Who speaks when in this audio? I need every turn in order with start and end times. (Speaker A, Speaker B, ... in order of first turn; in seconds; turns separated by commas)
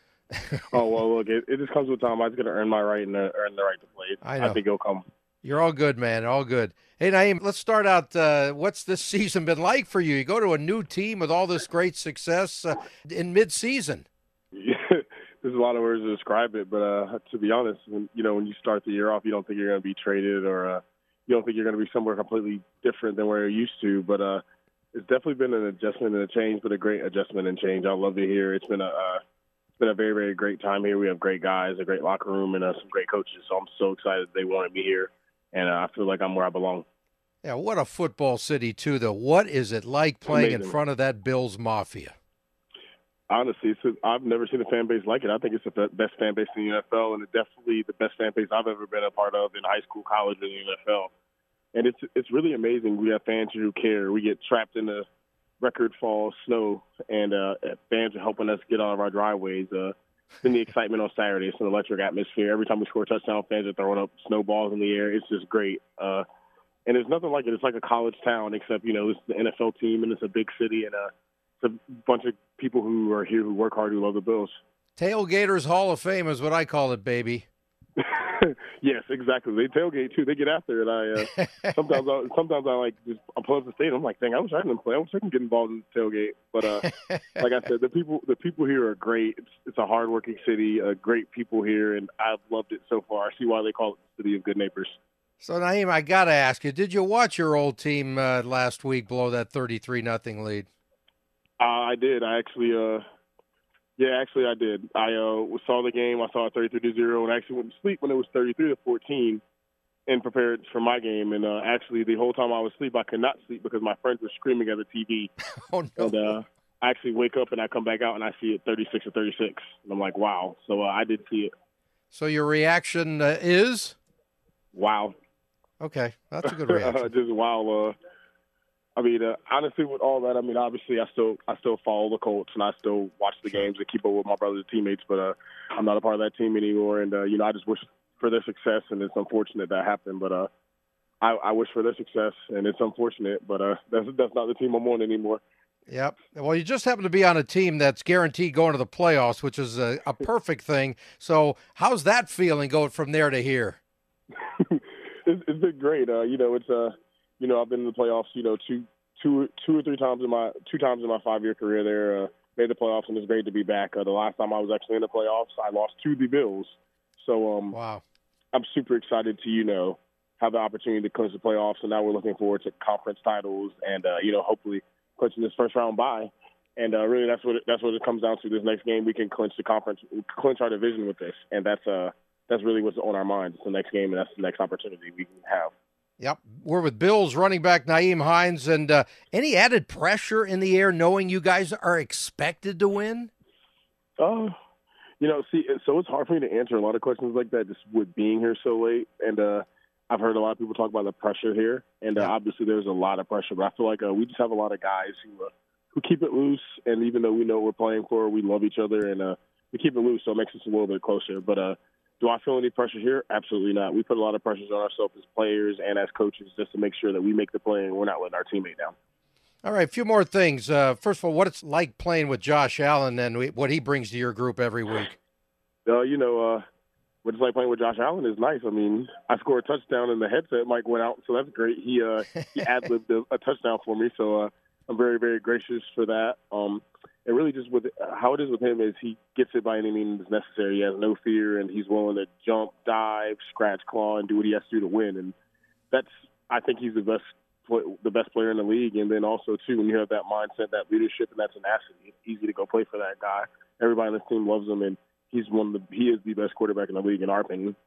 Speaker A: 0.3-0.6, Speaker B: 0.7-5.0, Speaker A: 4.2-4.6, Speaker A: 5.4-14.1, Speaker B: 14.5-24.4, Speaker B: 24.9-29.2, Speaker B: 29.8-36.8, Speaker A: 37.4-42.1, Speaker B: 40.3-40.7, Speaker B: 43.3-51.1, Speaker B: 51.7-55.0, Speaker B: 55.6-66.2, Speaker B: 66.8-71.1, Speaker B: 71.6-74.5, Speaker A: 75.0-77.5, Speaker B: 78.0-95.0, Speaker A: 81.2-81.7, Speaker A: 86.9-87.4, Speaker A: 95.4-100.7, Speaker B: 101.6-103.0, Speaker B: 104.0-109.4, Speaker B: 110.1-115.3, Speaker A: 115.5-116.3, Speaker B: 116.0-121.5, Speaker A: 122.1-124.0, Speaker B: 124.7-125.1, Speaker A: 125.8-127.1, Speaker B: 126.5-127.9, Speaker B: 129.0-140.5, Speaker B: 141.2-145.4, Speaker A: 145.9-153.8, Speaker B: 154.4-167.8, Speaker A: 167.7-168.0, Speaker B: 168.5-185.7, Speaker A: 186.2-193.3, Speaker B: 194.2-194.5, Speaker B: 195.2-218.9, Speaker A: 219.6-225.2, Speaker B: 225.8-226.6, Speaker B: 227.2-245.3, Speaker B: 245.9-257.8